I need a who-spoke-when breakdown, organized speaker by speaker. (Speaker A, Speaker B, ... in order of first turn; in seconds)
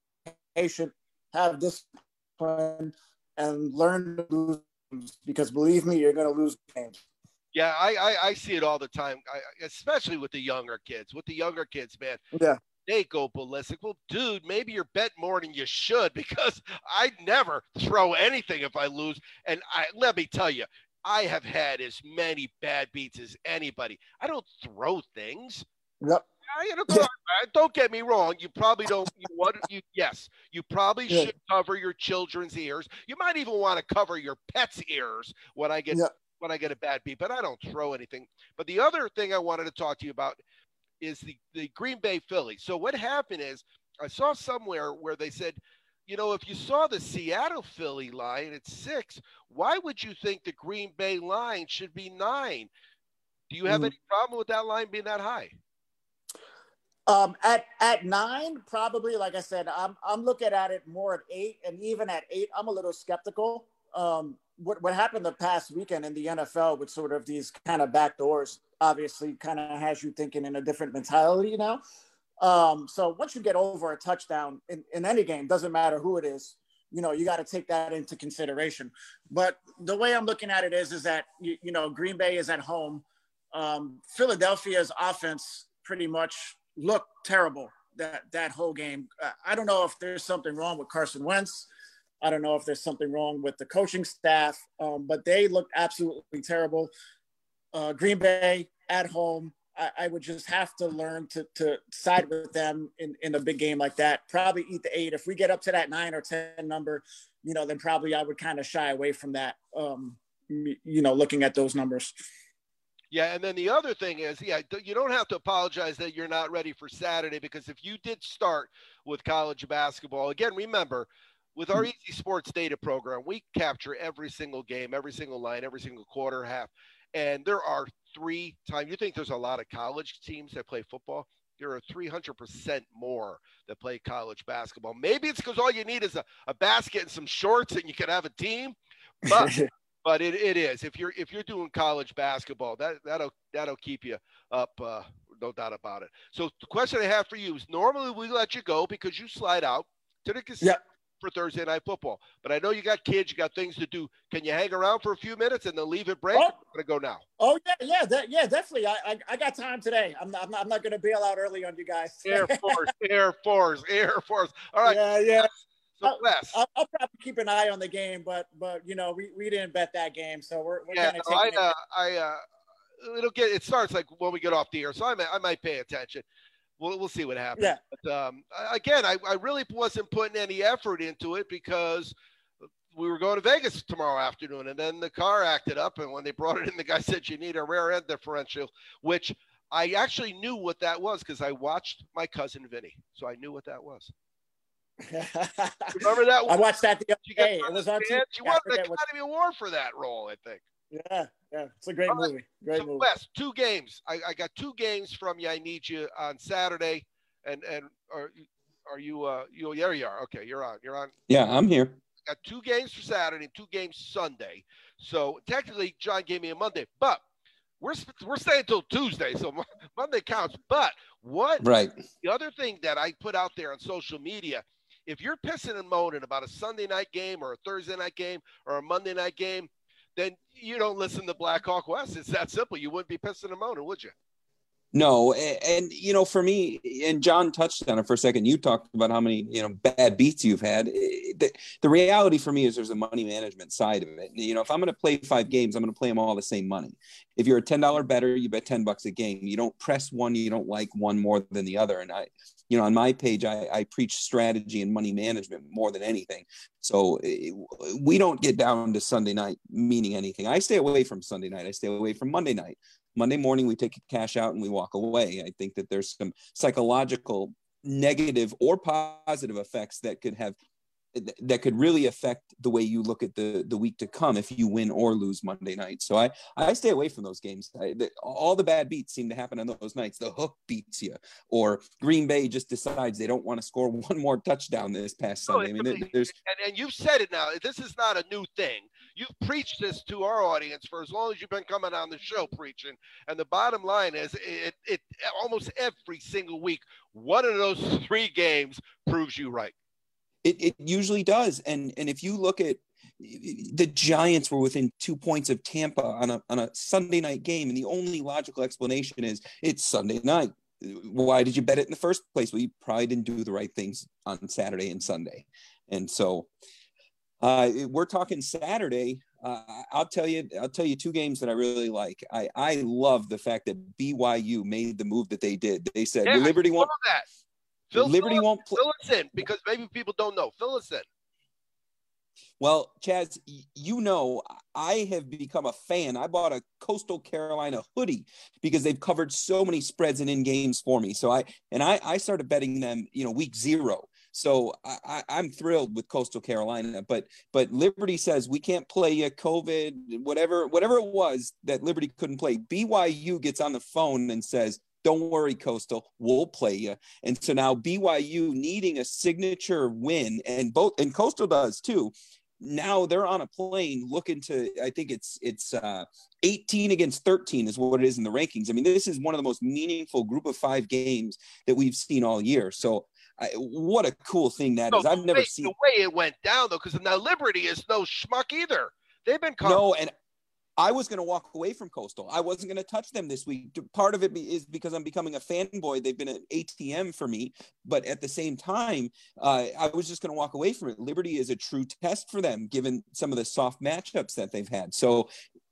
Speaker A: 0.5-7.0, 12.3-12.6, 53.7-53.9, 57.1-71.8, 72.4-91.7, 92.2-96.9, 97.7-112.1, 139.3-139.7, 157.4-162.9, 164.8-165.5, 166.0-171.7, 195.0-199.0, 200.9-203.1
Speaker B: 7.5-12.2, 12.9-25.6, 26.5-40.4, 41.0-52.7, 53.5-55.5, 113.1-157.2, 162.2-166.6, 170.9-172.4, 173.0-176.2, 176.8-182.1, 182.9-194.1, 195.9-196.6, 197.2-200.6, 202.1-211.1, 212.3-217.2, 217.8-221.6, 222.2-234.1, 285.5-299.7, 326.2-327.2, 327.9-331.0, 374.9-379.8
Speaker C: 211.3-212.0, 221.6-222.0, 234.9-270.6, 271.1-286.3, 300.4-316.5, 317.4-326.9, 327.9-328.8, 332.6-375.7, 379.6-380.1, 380.8-395.3